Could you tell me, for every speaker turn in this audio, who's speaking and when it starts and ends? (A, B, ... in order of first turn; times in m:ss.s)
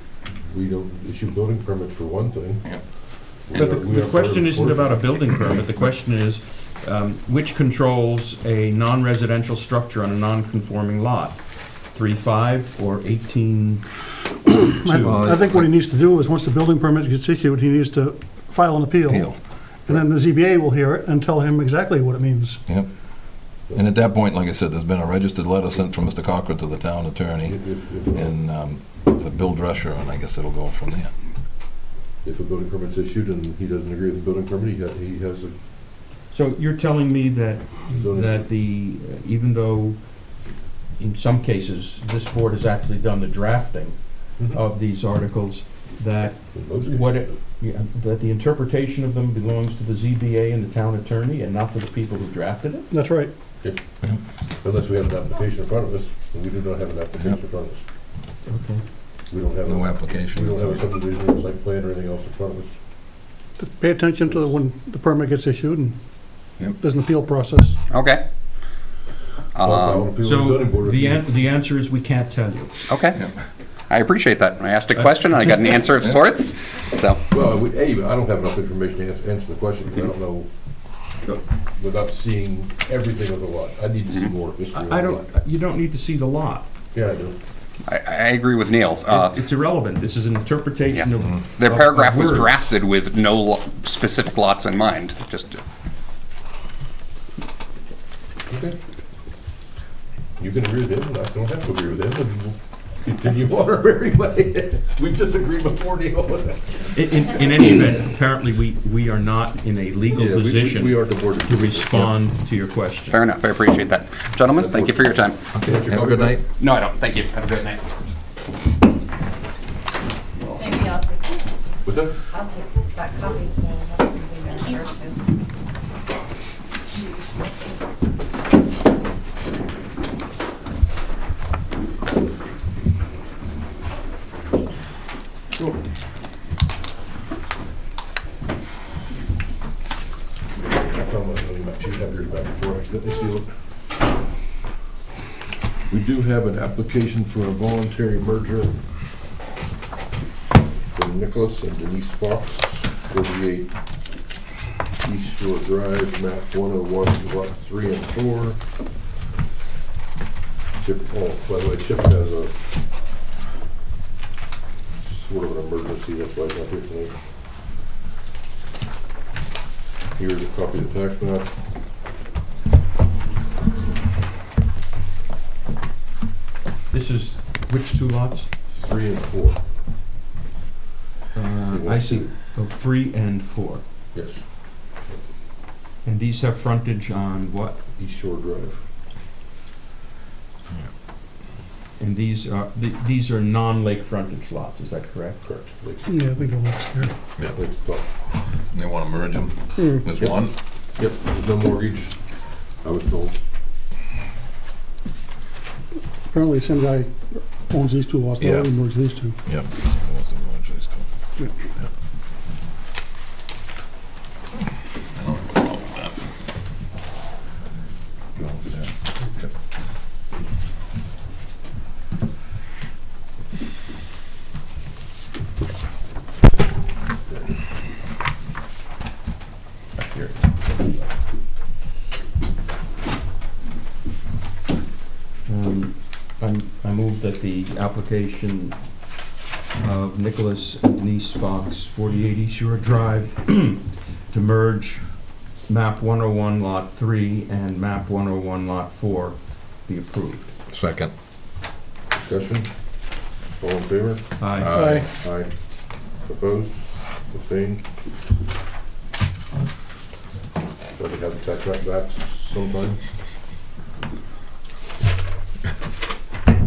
0:00.5-0:05.0 A
0:03.5-0:11.4 B
0:11.9-0:13.8 B
0:14.4-0:15.2 B
0:14.6-0:19.3 C
0:15.0-0:15.7 D
0:19.0-0:19.4 D
0:19.8-0:22.6 C
0:23.7-0:31.1 D
0:27.4-0:28.3 A
0:32.2-0:35.5 A
0:36.3-0:40.0 B
0:37.9-0:38.4 A
0:41.0-0:52.9 B
0:46.5-0:47.3 A
0:52.9-0:53.3 C
0:54.6-0:57.8 A
0:58.4-0:58.8 B
0:59.3-1:02.8 A
0:59.6-1:00.8 D
1:03.6-1:07.8 C
1:07.9-1:08.2 E
1:09.5-1:10.2 E
1:09.6-1:11.2 A
1:10.1-1:12.8 B
1:12.9-1:13.2 E
1:13.9-1:17.2 E
1:14.9-1:15.7 B
1:17.3-1:20.5 A
1:21.7-1:25.2 A
1:24.7-1:26.6 B
1:26.9-1:27.4 A
1:27.8-1:29.3 E
1:29.1-1:32.7 B
1:30.9-1:35.6 E
1:38.5-1:38.8 A
1:40.4-1:46.9 A
1:46.9-1:53.2 B
1:50.1-1:52.1 A
1:53.1-1:55.5 E
1:54.5-1:56.4 A
1:55.5-1:56.4 D
1:56.6-1:57.9 E
2:00.5-2:01.2 F
2:01.8-2:02.2 A
2:02.5-2:05.1 F
2:20.6-2:23.5 A
2:25.9-2:28.8 A
2:30.9-2:33.8 A
2:35.0-2:38.6 A
2:40.8-2:42.5 A
2:44.9-2:47.1 A
2:50.1-2:51.5 A
2:56.9-2:58.5 B
2:58.7-2:59.6 A
3:01.3-3:03.8 B
3:01.7-3:02.3 A
3:04.1-3:04.5 A
3:06.0-3:07.8 B
3:08.0-3:08.8 A
3:12.0-3:15.4 B
3:15.4-3:16.5 A
3:16.0-3:17.2 C
3:17.4-3:18.1 A
3:18.6-3:20.5 D
3:19.8-3:20.1 C
3:20.2-3:23.4 A
3:26.3-3:29.4 C
3:28.4-3:28.7 D
3:29.4-3:31.1 D
3:35.2-3:36.3 D
3:38.4-3:39.5 D
3:50.0-3:51.1 B
3:55.4-3:58.8 B
3:59.8-4:05.1 B
4:05.6-4:10.5 B
4:10.7-4:11.1 D
4:12.1-4:14.3 A
4:14.4-4:14.9 B
4:14.6-4:15.1 D
4:14.7-4:15.0 C
4:15.1-4:17.9 A
4:20.9-4:23.0 A